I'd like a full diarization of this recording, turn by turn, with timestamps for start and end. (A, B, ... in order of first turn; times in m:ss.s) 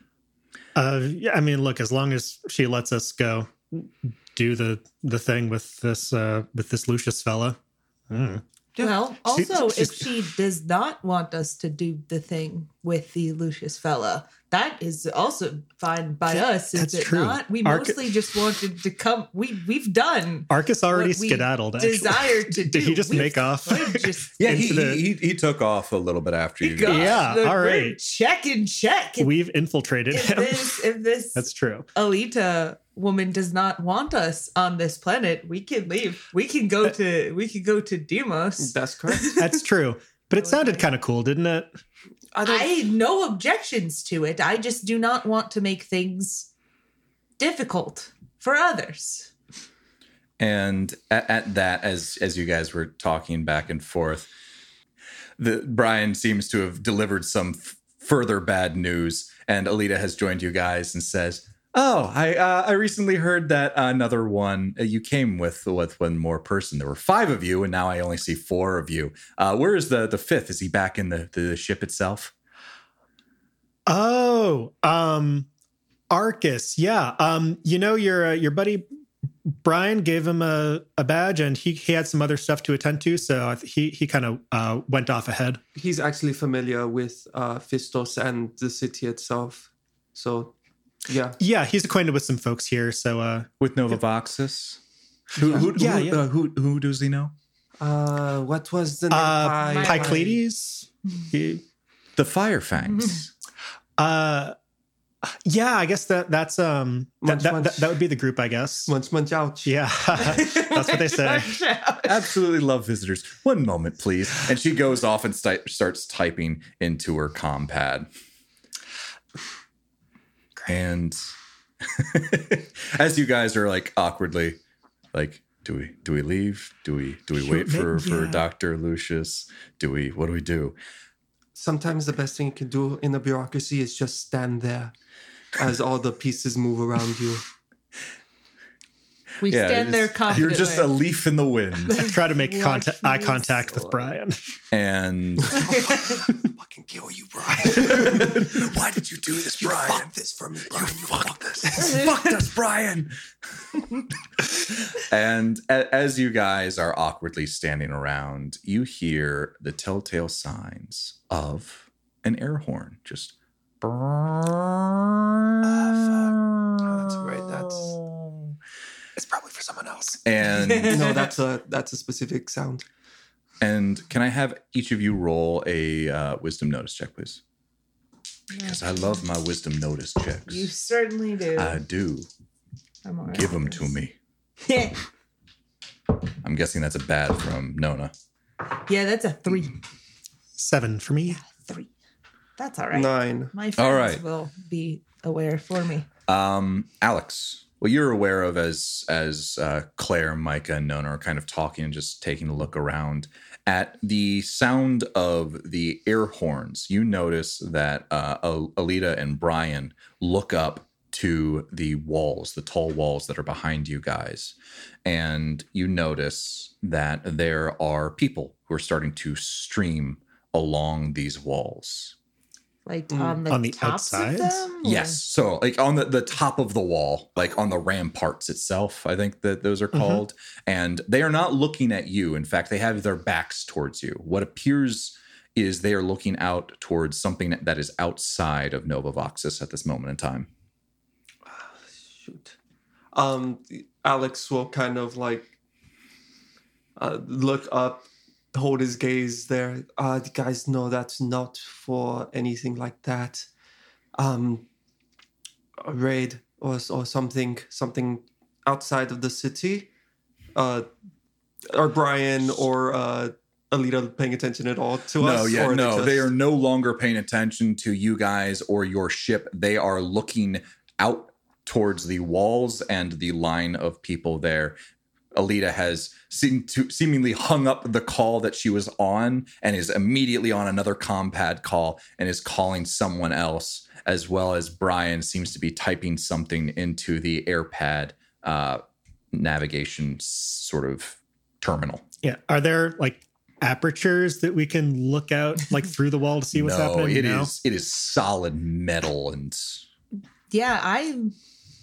0:00.8-0:07.6 A
0:08.1-0:08.4 A
0:08.8-0:24.6 B
0:09.2-0:10.1 A
0:16.3-0:18.1 A
0:20.5-0:25.0 A
0:24.4-0:27.1 C
0:26.6-0:29.3 B
0:26.8-0:28.0 A
0:29.2-0:30.8 A
0:30.1-0:39.5 B
0:31.3-0:31.9 A
0:38.6-0:39.4 D
0:39.4-0:41.7 A
0:40.4-0:40.8 B
0:42.3-0:42.7 D
0:42.4-0:46.5 B
0:47.4-0:49.3 B
0:50.4-0:54.3 C
0:55.4-1:12.3 C
1:13.9-1:15.5 A
1:16.1-1:18.8 A
1:19.4-1:25.6 A
1:25.7-1:30.5 D
1:31.0-1:31.4 D
1:31.4-1:33.5 A
1:33.6-1:34.8 C
1:35.3-1:37.3 C
1:35.4-1:36.2 A
1:37.8-1:40.4 D
1:39.1-1:41.6 A
1:39.6-1:40.3 B
1:42.2-1:43.3 C
1:44.0-1:44.5 A
1:45.4-1:48.9 A
1:47.2-1:48.0 D
1:48.9-1:49.8 D
1:49.6-1:51.6 A
1:50.2-1:52.2 B
1:52.0-1:58.1 C
2:00.6-2:01.3 C
2:01.8-2:04.6 C
2:05.1-2:10.8 C
2:07.4-2:08.4 A
2:11.5-2:14.9 D
2:15.5-2:17.4 D
2:19.4-2:20.9 B
2:19.4-2:22.1 C
2:21.9-2:24.0 B
2:22.0-2:24.6 A
2:24.7-2:25.7 C
2:25.5-2:28.6 D
2:27.6-2:30.1 C
2:29.4-2:31.9 D
2:30.7-2:33.1 C
2:34.5-2:48.5 C
2:46.8-2:48.0 D
2:49.2-2:50.2 A
2:50.2-2:51.1 C
2:50.5-2:51.3 B
2:50.9-2:52.8 D
2:53.6-2:57.4 C
2:58.5-3:00.7 C
2:58.5-2:59.1 B
3:00.5-3:01.8 B
3:01.5-3:02.3 C
3:03.0-3:03.9 B
3:03.3-3:04.1 C
3:04.6-3:05.0 B
3:06.4-3:08.1 C
3:08.7-3:09.8 B
3:10.6-3:11.4 A
3:11.3-3:11.9 B
3:12.6-3:16.1 B
3:12.9-3:13.5 D
3:13.8-3:14.2 C
3:16.3-3:42.1 C
3:42.8-3:45.2 B
3:43.1-3:43.4 D
3:43.5-3:44.6 A
3:44.8-4:00.5 C
3:49.9-3:50.2 A
4:01.5-4:02.5 D
4:03.1-4:05.5 D
4:07.0-4:13.5 D
4:14.2-4:14.7 D
4:15.8-4:19.9 D
4:20.5-4:20.9 D
4:21.7-4:26.3 D
4:25.2-4:34.8 C
4:35.3-4:52.0 C
4:52.2-4:57.5 A
4:56.5-4:59.8 C
5:00.5-5:01.3 B